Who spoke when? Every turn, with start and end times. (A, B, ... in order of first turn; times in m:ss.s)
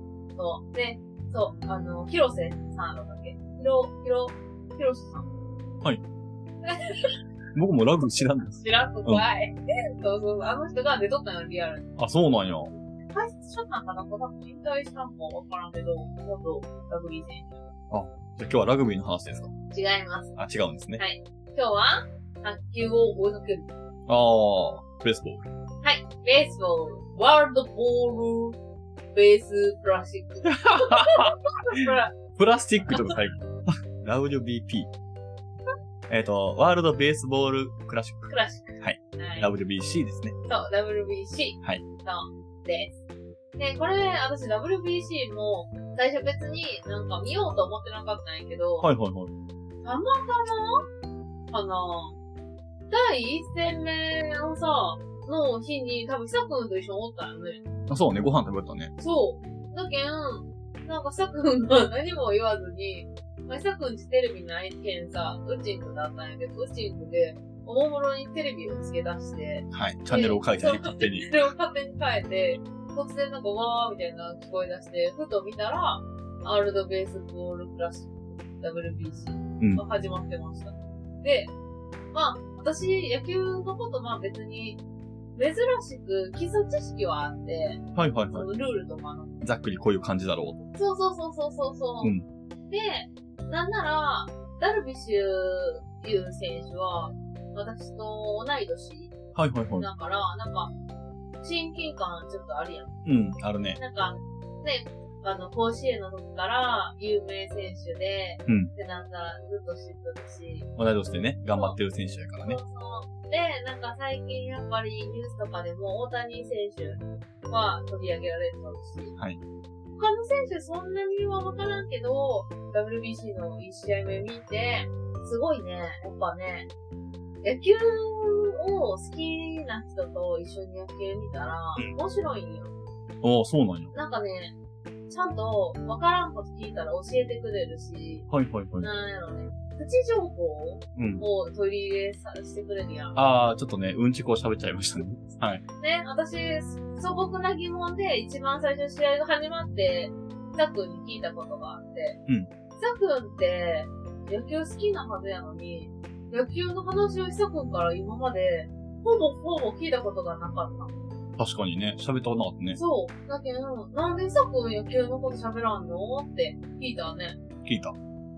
0:00.4-0:05.3 A
0:06.6-0:07.1 A
0:07.5-0:09.2 B
0:08.6-0:11.9 A
0:12.0-0:12.7 B
0:13.1-0:17.6 A
0:17.9-0:19.5 B
0:19.7-0:20.3 A
0:20.4-0:21.0 B
0:21.0-0:23.7 A
0:24.1-0:25.4 B
0:25.8-0:28.6 A
0:29.1-0:32.1 A
0:30.4-0:34.9 B
0:32.9-0:33.1 A
0:36.1-0:40.3 B
0:38.2-0:39.5 A
0:40.5-0:42.9 A
0:43.6-0:48.9 A
0:48.8-0:49.3 B
0:49.8-0:50.8 A
0:51.5-0:52.2 A
0:52.9-0:57.6 A
0:57.9-0:58.9 B
0:59.0-1:21.5 A
1:09.7-1:11.3 B
1:22.1-1:24.8 A
1:25.3-1:29.3 A
1:27.9-1:28.5 B
1:29.4-1:30.6 B
1:30.7-1:32.1 A
1:32.7-1:39.1 A
1:39.3-1:39.9 B
1:39.8-1:40.7 A
1:41.4-1:42.9 A
1:43.0-1:43.8 B
1:43.8-1:50.7 A
1:48.4-1:48.7 B
1:50.8-1:52.6 B
1:52.4-1:59.1 A
1:59.9-2:06.7 A
2:07.4-2:12.7 A
2:13.2-2:13.9 B
2:13.9-2:14.5 A
2:15.1-2:18.3 A
2:18.3-2:18.9 B
2:18.8-2:23.2 A
2:20.9-2:21.2 B
2:23.1-2:25.6 B
2:25.8-2:32.2 A
2:32.8-2:40.9 A
2:41.4-2:42.8 B
2:42.7-2:47.4 A
2:47.6-2:47.9 B